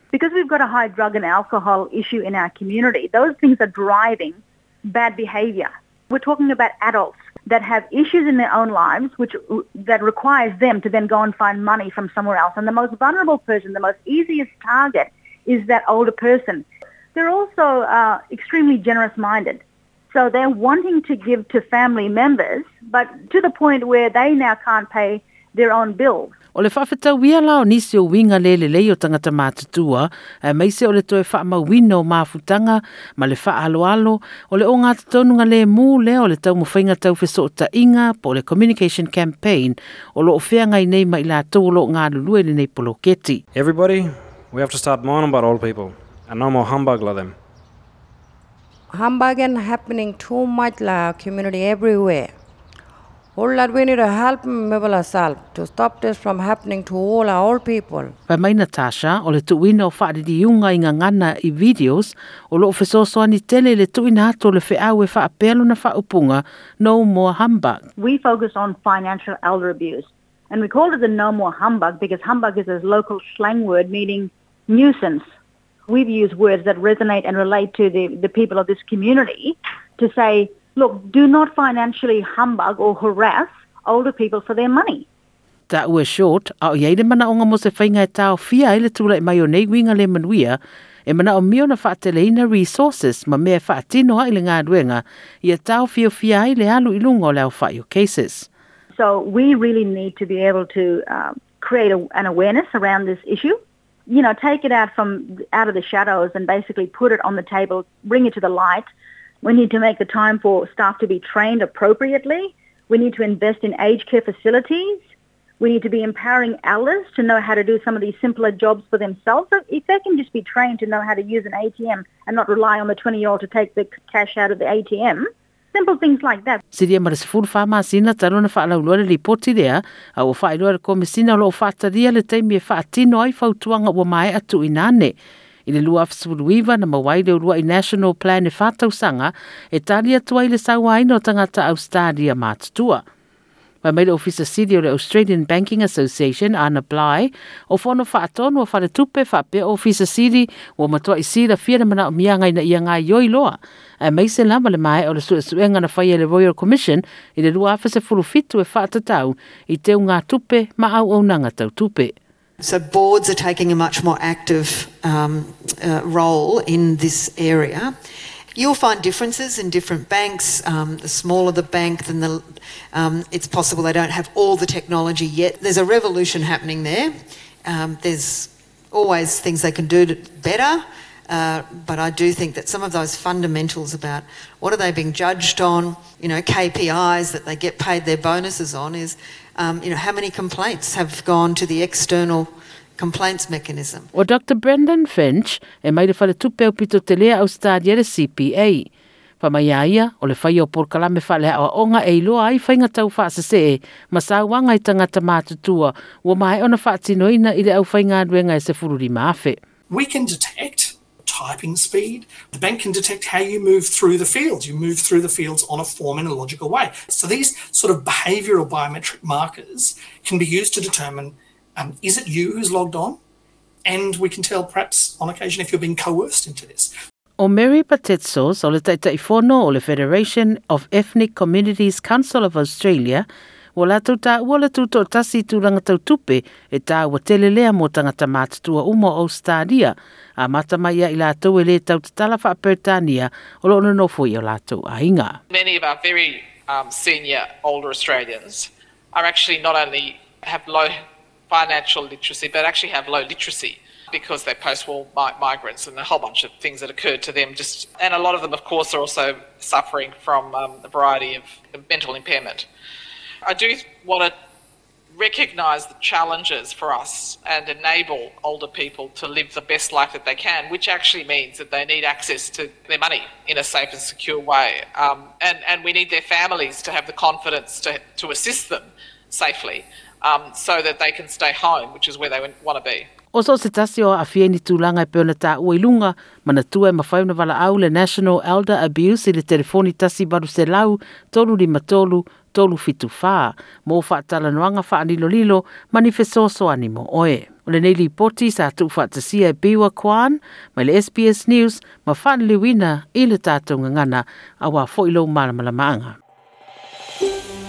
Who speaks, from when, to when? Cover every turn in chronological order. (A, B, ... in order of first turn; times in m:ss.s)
0:00.1-0:26.3 A
0:26.6-0:43.4 B
0:43.5-0:47.4 C
0:48.9-0:52.4 D
0:53.4-0:58.2 D
0:58.3-1:07.8 B
1:08.0-1:15.2 A
1:15.9-1:25.1 A
1:25.7-1:38.5 B
1:39.0-1:48.9 A
1:49.4-1:55.0 A
1:55.6-2:06.6 A
2:06.7-2:15.2 B
2:15.7-2:23.0 B
2:23.8-2:42.2 B
2:42.6-2:47.9 E
2:48.6-2:57.1 E
2:57.6-3:14.1 E
3:14.2-3:18.9 B
3:19.4-3:29.6 B
3:29.9-3:43.2 F
3:43.8-3:46.9 F
3:47.4-4:05.4 B
4:05.5-4:11.0 G
4:11.5-4:22.7 G
4:23.5-4:24.3 G
4:25.1-4:43.1 G
4:43.3-5:06.2 B